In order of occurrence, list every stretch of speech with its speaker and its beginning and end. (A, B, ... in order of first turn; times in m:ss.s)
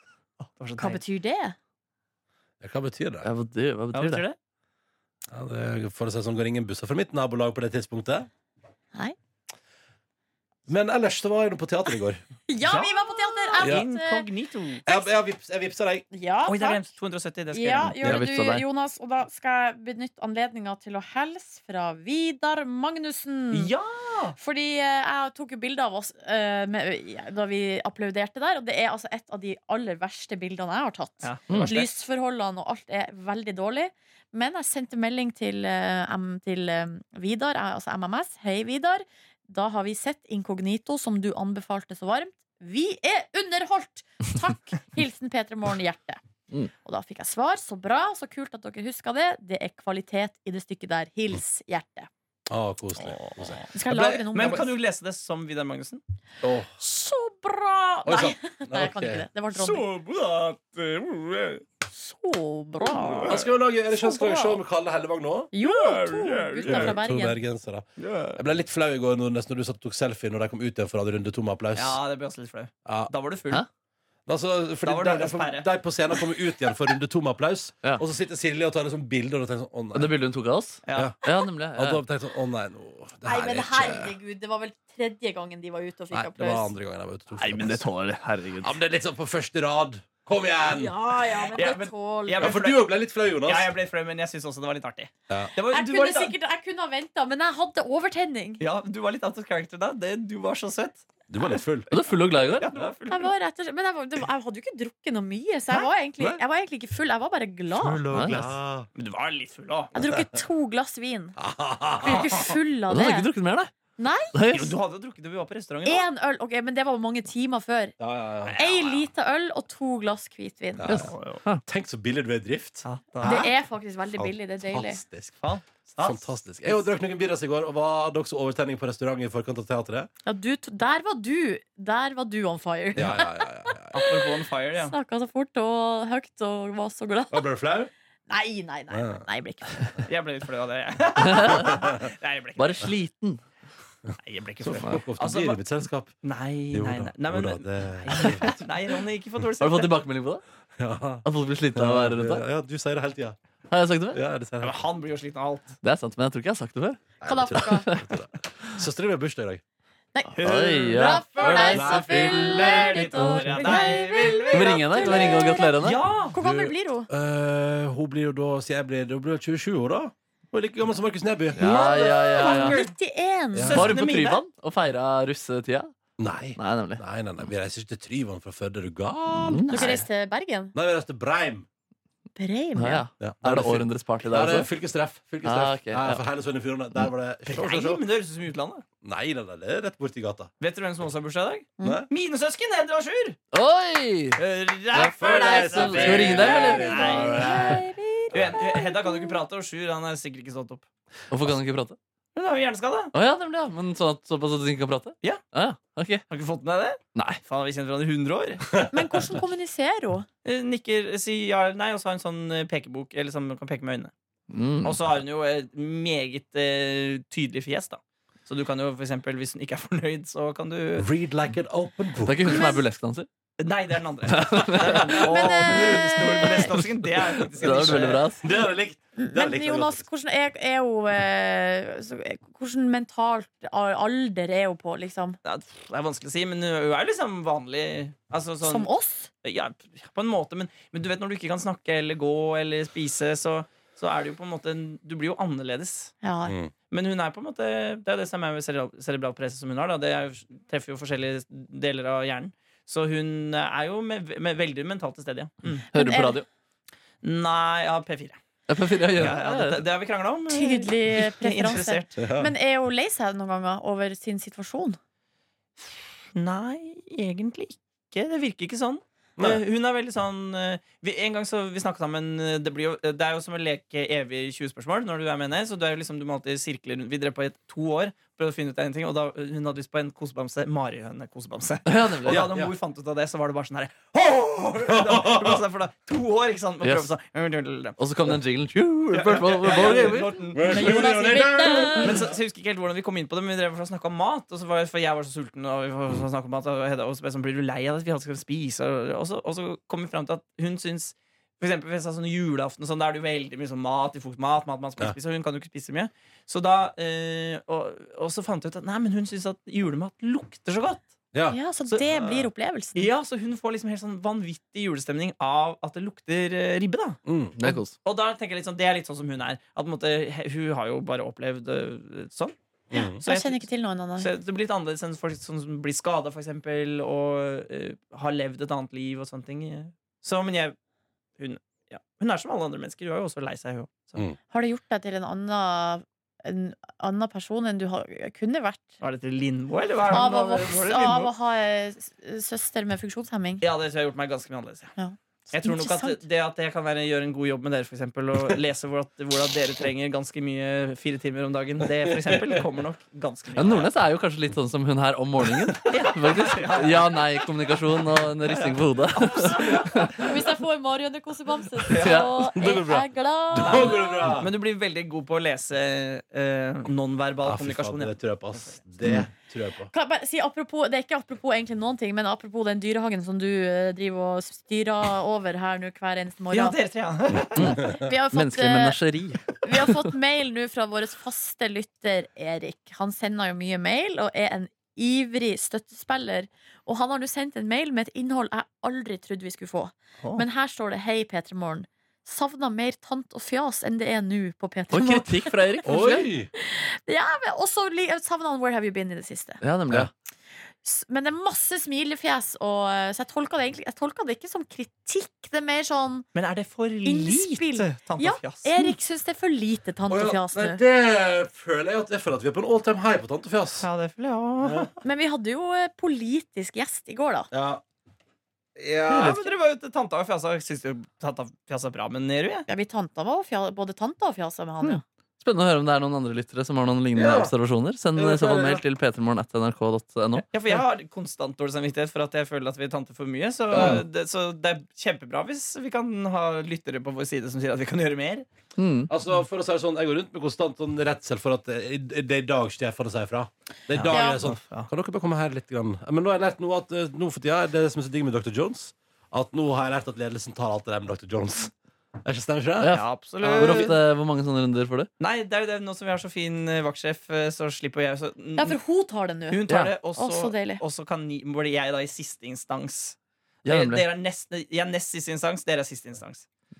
0:00.4-0:01.0 A
0:00.8-0:01.6 B
0:02.6-0:03.3 C
0:03.2-0:04.2 D
0:03.9-0:04.4 A
0:05.3-0:08.3 C
0:10.7-0:12.2 C
0:12.5-0:14.3 B
0:12.6-0:14.8 A
0:13.6-0:13.9 C
0:14.9-0:16.1 C
0:16.1-0:16.9 B
0:16.4-0:18.0 A
0:17.5-0:23.7 B
0:17.8-0:18.6 D
0:23.5-0:24.4 A
0:24.4-0:46.2 B
0:31.2-0:31.9 A
0:46.8-0:52.1 B
0:52.5-0:54.6 C
0:53.0-0:53.7 A
0:53.7-0:54.8 B
0:54.3-0:56.0 A
0:56.4-0:56.7 C
0:56.8-0:59.9 B
0:58.0-0:59.3 C
0:59.5-1:01.6 A
1:01.9-1:04.6 B
1:02.8-1:03.5 A
1:03.1-1:05.5 C
1:05.5-1:07.4 B
1:05.6-1:07.0 A
1:06.6-1:12.0 C
1:08.0-1:08.4 A
1:11.8-1:13.6 A
1:12.9-1:13.1 C
1:14.3-1:20.2 C
1:14.8-1:16.2 A
1:19.9-1:22.0 D
1:20.9-1:21.2 A
1:21.7-1:24.2 C
1:23.3-1:26.7 B
1:26.1-1:27.8 C
1:27.4-1:28.8 D
1:28.6-1:31.0 C
1:30.6-1:32.5 B
1:31.6-1:36.3 A
1:32.4-1:33.7 C
1:35.7-1:38.6 B
1:38.6-1:43.3 A
1:41.3-1:41.9 C
1:41.9-1:42.7 D
1:43.1-1:48.0 B
1:45.7-1:46.4 C
1:47.7-1:48.9 C
1:48.1-1:48.5 D
1:49.0-1:49.9 A
1:49.9-1:51.4 B
1:50.0-1:50.2 C
1:51.4-1:52.5 C
1:52.0-1:53.3 B
1:52.9-1:53.7 D
1:54.0-1:54.3 B
1:54.3-1:54.7 D
1:54.5-1:56.1 A
1:55.8-1:58.0 B
1:58.0-1:58.6 C
1:58.4-1:59.1 A
1:58.6-2:01.0 B
2:00.8-2:01.1 C
2:00.9-2:01.6 D
2:00.9-2:01.4 A
2:01.7-2:03.6 C
2:02.8-2:03.4 A
2:03.2-2:05.0 B
2:04.1-2:05.4 C
2:05.4-2:06.8 A
2:06.0-2:10.1 C
2:10.2-2:17.5 B
2:13.0-2:14.0 C
2:13.9-2:15.0 A
2:17.3-2:17.9 C
2:18.3-2:19.9 B
2:18.9-2:19.3 C
2:20.1-2:22.9 A
2:21.3-2:21.7 D
2:22.6-2:23.4 D
2:24.2-2:25.6 A
2:24.6-2:26.2 C
2:26.2-2:30.0 A
2:26.7-2:28.6 C
2:29.6-2:30.4 D
2:30.8-2:33.4 C
2:31.2-2:32.4 D
2:33.7-2:34.2 D
2:34.1-2:34.8 C
2:34.6-2:35.8 A
2:35.8-2:38.1 D
2:37.2-2:39.6 C
2:37.2-2:37.9 B
2:40.4-2:46.4 A
2:40.4-2:42.0 D
2:40.9-2:45.8 B
2:41.4-2:43.1 C
2:43.1-2:43.6 D
2:44.5-2:46.0 D
2:46.3-2:47.1 B
2:46.3-2:51.7 C
2:51.6-2:52.8 D
2:51.6-2:53.9 B
2:51.7-2:52.9 A
2:53.5-2:53.9 C
2:53.7-2:55.9 D
2:53.7-2:54.4 A
2:56.2-3:00.1 C
2:56.6-2:57.0 D
2:59.3-3:00.0 D
2:59.7-3:00.8 B
3:00.7-3:01.7 C
3:02.4-3:03.0 B
3:02.8-3:04.7 D
3:03.2-3:08.0 C
3:05.4-3:06.2 D
3:07.5-3:08.8 A
3:09.0-3:10.5 C
3:10.6-3:13.4 A
3:11.8-3:12.1 C
3:13.5-3:14.4 D
3:14.4-3:17.7 A
3:14.9-3:17.2 D
3:15.0-3:18.6 C
3:16.1-3:19.4 B
3:18.3-3:20.9 A
3:21.3-3:22.0 D
3:22.3-3:23.1 A
3:23.1-3:26.2 D
3:26.3-3:28.7 A
3:28.9-3:30.3 B
3:30.4-3:34.1 A
3:34.5-3:35.0 D
3:34.8-3:41.1 A
3:41.0-3:42.6 C
3:42.2-3:43.3 D
3:42.4-3:42.8 B
3:43.6-3:48.3 A
3:44.3-3:48.4 D
3:45.1-3:46.8 B
3:48.4-3:50.1 C
3:49.2-3:55.4 B
3:55.4-3:58.9 A
3:58.6-3:59.3 B
3:59.4-4:06.1 A
4:06.2-4:06.5 B
4:06.5-4:06.7 C
4:06.9-4:15.8 A
4:15.9-4:16.4 B
4:15.9-4:16.5 D
4:17.2-4:18.4 A
4:18.7-4:19.8 D
4:19.2-4:22.2 A
4:20.5-4:25.0 B
4:22.2-4:22.5 C
4:25.8-4:48.0 A
4:41.9-4:42.5 D
4:42.3-4:42.7 C
4:44.9-4:45.6 C
4:46.8-4:47.1 D
4:48.0-4:50.4 D
4:49.1-4:51.0 A
4:49.7-4:52.4 C
4:50.7-4:52.2 B
4:52.0-5:11.1 A
5:11.3-5:11.6 C
5:11.5-5:13.1 B
5:11.9-5:22.6 A
5:17.3-5:17.6 C
5:17.6-5:17.9 D
5:22.9-5:23.2 C
5:22.9-5:24.3 B
5:23.2-5:30.8 A
5:31.4-5:34.2 A
5:34.5-5:38.9 B
5:39.0-5:41.3 A
5:40.1-5:43.6 B
5:43.6-5:44.9 A
5:45.0-5:46.2 B
5:45.5-5:53.9 A
5:52.3-5:52.5 C
5:53.6-6:00.3 D
5:55.9-5:57.3 A
5:58.4-5:59.9 A
6:00.2-6:04.4 B
6:01.9-6:02.3 A
6:02.0-6:02.4 D
6:02.4-6:04.5 C
6:03.6-6:08.8 A
6:07.4-6:09.9 C
6:09.9-6:16.8 B
6:16.5-6:17.8 A
6:17.6-6:19.0 B
6:17.6-6:20.1 D
6:19.6-6:35.9 B
6:34.9-6:36.3 D
6:35.8-6:36.5 C
6:36.6-6:39.6 B
6:39.6-6:40.1 D
6:40.8-6:46.3 B
6:46.4-6:48.9 A
6:47.0-6:50.8 B
6:50.1-6:53.9 C
6:53.8-6:54.9 A
6:54.6-6:54.9 C
6:55.0-6:57.5 B
6:57.5-6:57.8 C
6:58.8-6:59.4 C
6:59.1-7:02.7 A
7:02.7-7:05.0 B
7:04.8-7:10.5 D
7:07.1-7:07.5 C
7:08.2-7:08.8 C
7:10.5-7:18.5 A
7:13.7-7:14.0 C
7:13.8-7:14.0 D
7:18.8-7:19.1 D
7:19.1-7:31.7 C
7:23.9-7:24.9 A
7:24.1-7:24.4 B
7:32.2-7:33.0 C
7:32.8-7:35.1 D
7:32.9-7:34.0 A
7:35.2-7:38.8 A
7:38.6-7:39.6 B
7:39.5-7:46.5 A
7:40.2-7:40.8 B
7:43.6-7:44.0 D